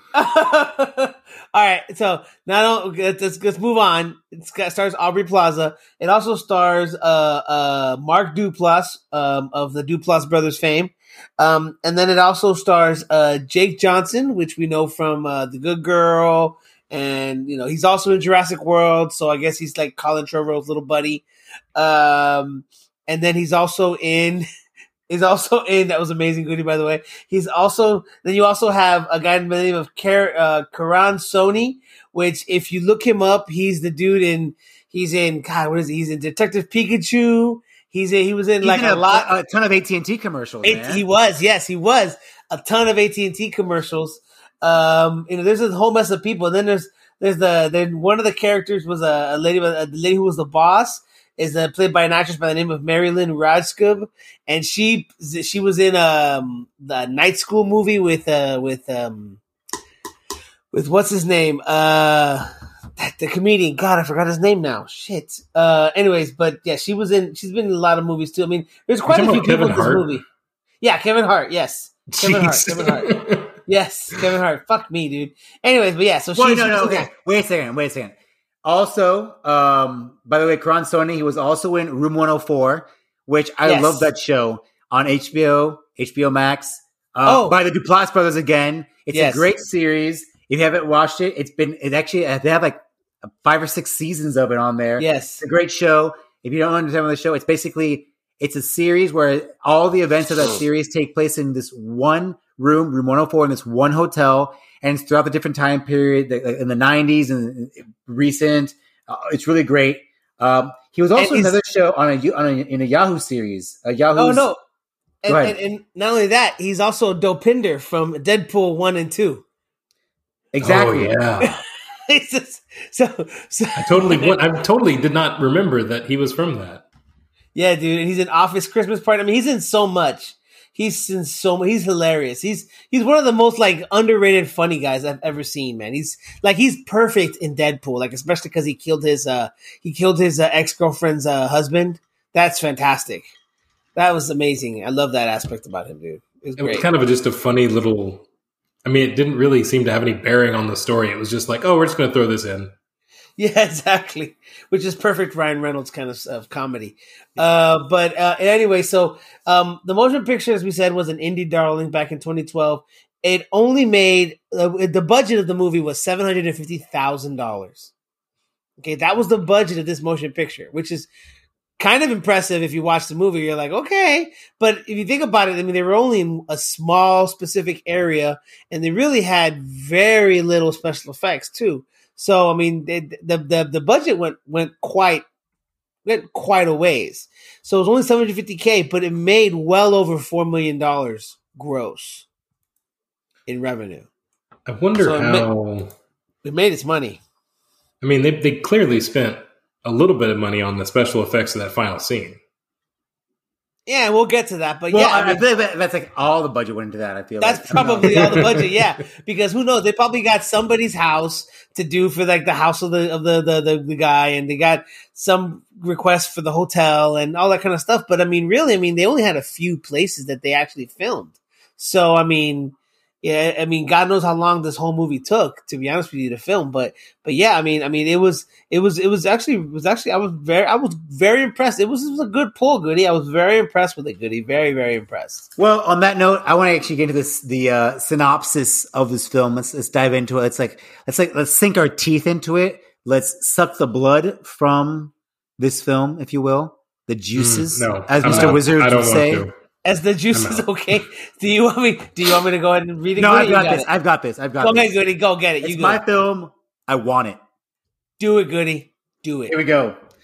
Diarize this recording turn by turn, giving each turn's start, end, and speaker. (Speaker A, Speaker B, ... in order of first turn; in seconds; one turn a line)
Speaker A: 0.1-21.2
Speaker A: 21.8-24.4
Speaker A: 25.1-39.3
Speaker B: 38.6-41.0
Speaker A: 40.6-59.4
Speaker A: 60.7-70.2
Speaker C: 69.1-70.1
Speaker A: 70.8-73.1
Speaker C: 72.1-73.6
Speaker A: 73.7-77.1
Speaker B: 76.4-114.5
Speaker A: 83.6-84.1
Speaker A: 87.2-87.5
Speaker A: 89.1-89.5
Speaker A: 95.0-95.4
Speaker A: 111.2-111.6
Speaker A: 114.2-114.6
Speaker A: 115.2-119.4
Speaker B: 115.3-115.5
Speaker B: 120.5-121.2
Speaker C: 120.6-121.6
Speaker A: 122.1-124.4
Speaker C: 123.8-126.8
Speaker A: 127.5-143.3
Speaker A: 143.9-146.9
Speaker C: 146.6-148.3
Speaker C: 148.8-152.7
Speaker A: 153.4-167.9
Speaker A: 168.8-171.1
Speaker A: 171.8-185.3
Speaker A: 186.1-192.3
Speaker A: 193.5-194.1
Speaker C: 194.7-195.9
Speaker A: 194.9-195.5
Speaker A: 196.4-197.2
Speaker C: 198.0-202.4
Speaker A: 203.9-205.4
Speaker B: 204.9-208.4
Speaker A: 207.4-235.5
Speaker C: 207.8-208.8
Speaker B: 235.6-249.4
Speaker C: 247.4-249.5
Speaker A: 248.3-248.5
Speaker A: 249.9-253.9
Speaker C: 250.3-251.0
Speaker B: 253.2-254.9
Speaker A: 254.6-256.0
Speaker B: 255.6-257.4
Speaker A: 258.2-259.6
Speaker B: 259.5-260.0